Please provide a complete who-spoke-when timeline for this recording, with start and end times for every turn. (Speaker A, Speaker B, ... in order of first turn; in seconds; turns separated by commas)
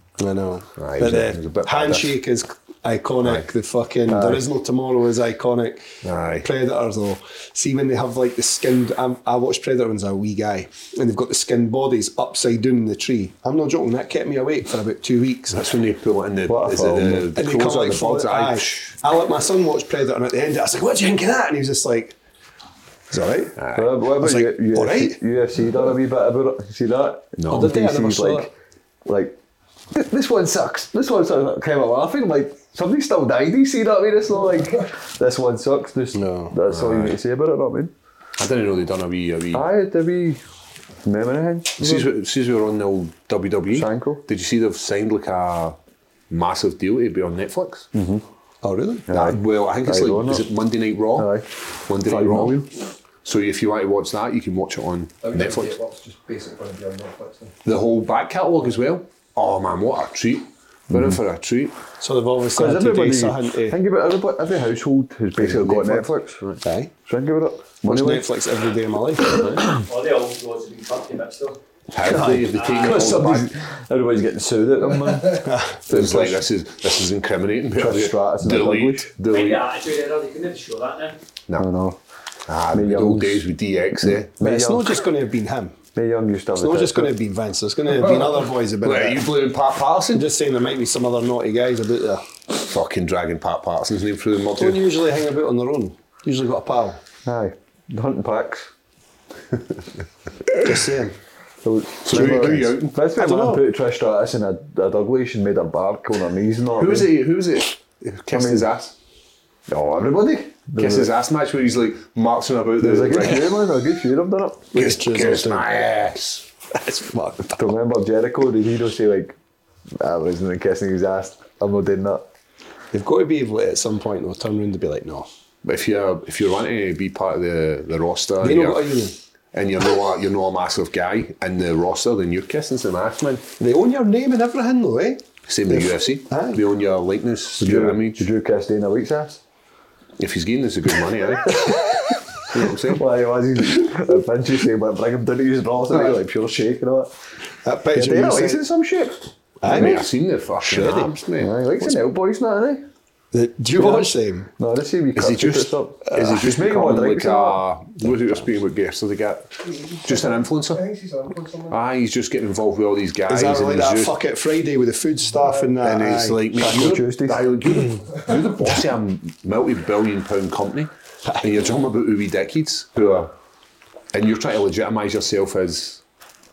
Speaker A: 0.2-5.9, Speaker B: 0.8-2.2, Speaker C: 4.1-4.4, Speaker B: 6.0-6.5, Speaker A: 6.4-15.6, Speaker B: 15.5-19.0, Speaker C: 16.5-17.3, Speaker A: 17.3-22.1, Speaker A: 23.1-23.6, Speaker B: 23.6-23.9, Speaker C: 23.7-28.5, Speaker A: 24.2-25.2, Speaker B: 27.4-27.8, Speaker A: 27.5-28.5, Speaker C: 29.1-29.4, Speaker C: 29.9-37.9, Speaker A: 36.1-36.5, Speaker B: 36.7-37.2, Speaker B: 38.4-39.6, Speaker C: 39.5-40.4, Speaker C: 41.0-42.1, Speaker B: 41.8-45.8, Speaker C: 43.7-44.2, Speaker B: 46.3-47.9, Speaker C: 47.9-48.2, Speaker A: 48.6-49.1, Speaker C: 49.1-50.5, Speaker B: 49.1-52.6, Speaker C: 51.1-51.5, Speaker C: 52.0-52.7, Speaker B: 53.2-55.7, Speaker D: 55.2-57.5, Speaker B: 57.6-61.8, Speaker C: 60.9-61.2, Speaker A: 62.0-63.8, Speaker C: 62.5-66.4, Speaker B: 65.4-66.6, Speaker A: 66.6-66.9, Speaker C: 67.0-68.3, Speaker A: 67.8-69.5, Speaker B: 69.3-69.6, Speaker E: 69.6-71.6, Speaker B: 71.9-73.5, Speaker C: 72.0-76.4, Speaker A: 75.4-75.8, Speaker B: 75.9-79.7, Speaker C: 77.8-79.1, Speaker E: 79.3-81.2, Speaker C: 81.6-82.0, Speaker B: 82.5-84.3, Speaker C: 82.7-83.5, Speaker C: 84.0-85.0, Speaker A: 84.4-85.7, Speaker C: 85.9-87.1, Speaker A: 86.6-89.3, Speaker B: 88.0-90.3, Speaker A: 90.1-92.2, Speaker B: 92.6-94.8, Speaker A: 94.6-97.0, Speaker C: 97.2-98.7, Speaker A: 100.6-101.2, Speaker C: 101.6-107.1, Speaker B: 102.0-103.0, Speaker A: 103.1-103.6, Speaker B: 106.8-108.9, Speaker C: 108.3-108.7, Speaker C: 109.7-111.1, Speaker B: 110.8-113.6, Speaker C: 112.8-114.9, Speaker A: 114.7-115.7, Speaker B: 114.7-116.5, Speaker A: 116.7-117.7, Speaker C: 117.5-119.3, Speaker C: 120.0-122.3, Speaker A: 122.9-125.3, Speaker B: 125.6-129.0, Speaker A: 128.4-129.1, Speaker B: 129.5-133.4, Speaker A: 133.6-136.6, Speaker B: 135.5-138.3, Speaker C: 137.6-139.4, Speaker B: 140.2-141.8, Speaker C: 141.5-141.8, Speaker B: 142.5-143.0, Speaker C: 142.6-147.1, Speaker A: 147.6-148.6, Speaker C: 147.9-149.2, Speaker A: 149.6-150.1, Speaker B: 149.7-151.9, Speaker A: 150.6-151.1, Speaker C: 151.4-152.8, Speaker A: 153.3-154.5, Speaker C: 153.8-157.6, Speaker B: 155.2-160.8, Speaker A: 156.1-156.3, Speaker D: 159.6-161.8, Speaker B: 161.7-164.1, Speaker A: 163.3-166.4, Speaker B: 165.8-173.3, Speaker C: 166.6-167.5, Speaker B: 174.1-176.0